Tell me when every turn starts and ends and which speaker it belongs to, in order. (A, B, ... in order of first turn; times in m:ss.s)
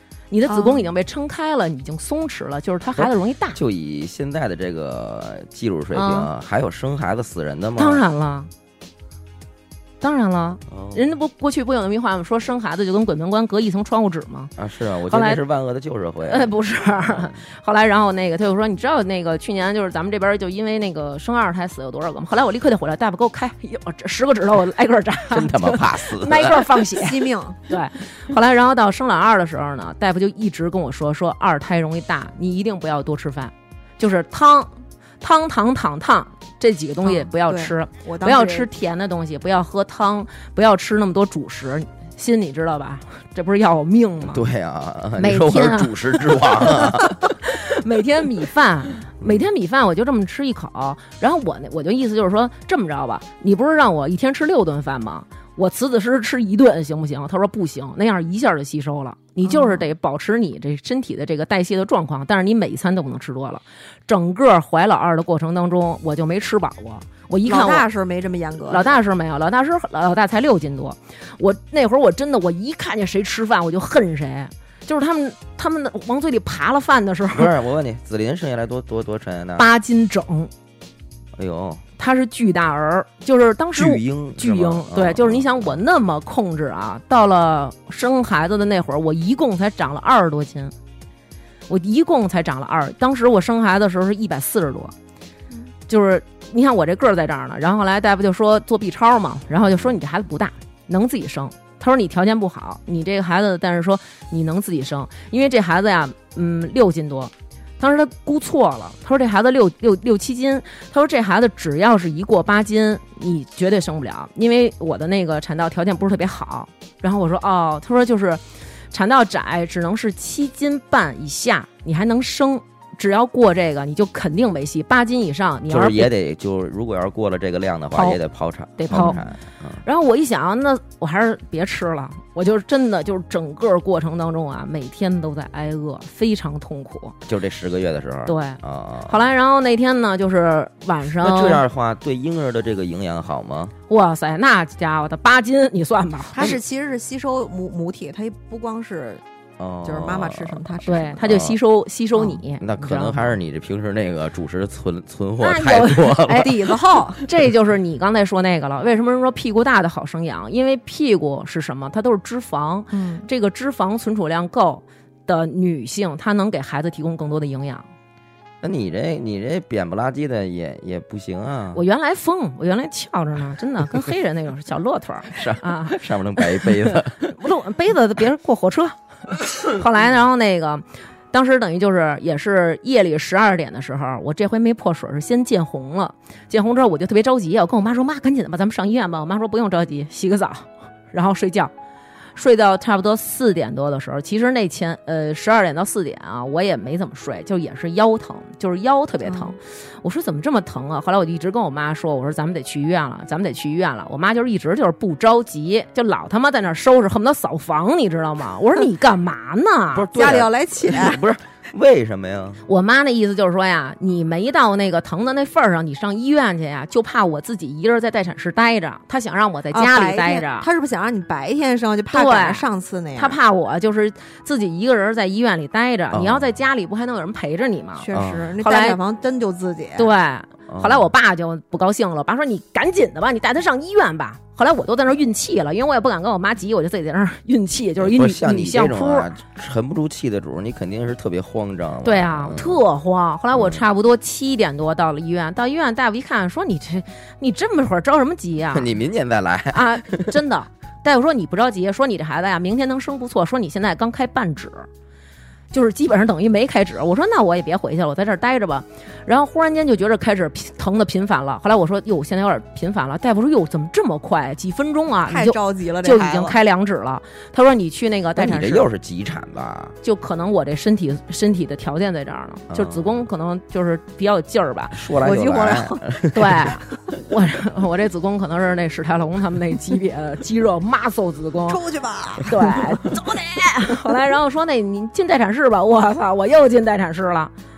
0:00.3-0:03.6 A
0:00.5-0:00.8 B
0:03.0-0:08.0 C
0:05.9-0:06.3 A
0:07.8-0:08.5 A
0:10.0-0:14.5 A
0:10.7-0:11.0 C
0:14.6-0:17.3 C
0:15.1-0:15.4 A
0:16.3-0:44.4 A
0:25.3-0:26.6 C
0:27.0-0:27.6 B
0:37.0-0:38.7 B
0:44.2-0:47.2 C
0:45.2-1:07.8 A
0:49.2-0:49.4 C
0:59.4-0:59.8 B
1:07.4-1:09.0 B
1:08.7-1:17.5 A
1:17.3-1:19.7 C
1:19.6-1:20.5 A
1:21.4-1:21.8 C
1:22.0-1:30.7 A
1:23.7-1:25.8 C
1:31.7-1:34.9 A
1:35.9-2:06.1 A
2:05.7-2:09.8 C
2:07.9-2:08.2 A
2:08.8-2:09.2 A
2:09.8-2:17.2 A
2:17.2-2:19.2 C
2:18.2-2:21.6 A
2:21.2-2:23.7 C
2:23.9-2:26.5 A
2:26.3-2:29.2 B
2:29.6-2:30.6 C
2:29.8-2:31.2 B
2:30.8-2:33.3 A
2:31.2-2:31.6 C
2:32.6-2:36.7 C
2:35.4-2:47.8 A
2:36.3-2:37.2 B
2:42.9-2:43.2 B
2:48.6-2:51.8 C
2:51.7-2:56.0 A
2:55.3-2:57.2 C
2:56.6-2:59.0 A
2:59.6-3:11.7 A
3:12.4-3:30.4 A
3:19.2-3:19.5 B
3:29.9-3:32.6 C
3:30.1-3:31.2 B
3:32.6-3:40.7 A
3:39.7-3:43.4 B
3:42.1-3:42.6 A
3:43.2-3:49.0 A
3:46.1-3:46.5 C
3:48.0-3:50.1 B
3:48.1-3:48.5 C
3:50.0-3:59.3 A
3:50.7-3:51.0 C
3:58.0-4:02.8 C
4:02.0-4:08.9 A
4:03.5-4:03.8 C
4:08.7-4:10.3 C
4:09.7-4:14.9 A
4:15.7-4:28.8 A
4:25.3-4:26.6 B
4:28.4-4:29.9 C
4:30.0-4:35.0 A
4:32.7-4:33.3 C
4:34.9-4:36.7 C
4:35.2-4:36.3 B
4:36.3-4:41.8 A
4:41.7-4:43.0 B
4:42.4-4:47.5 A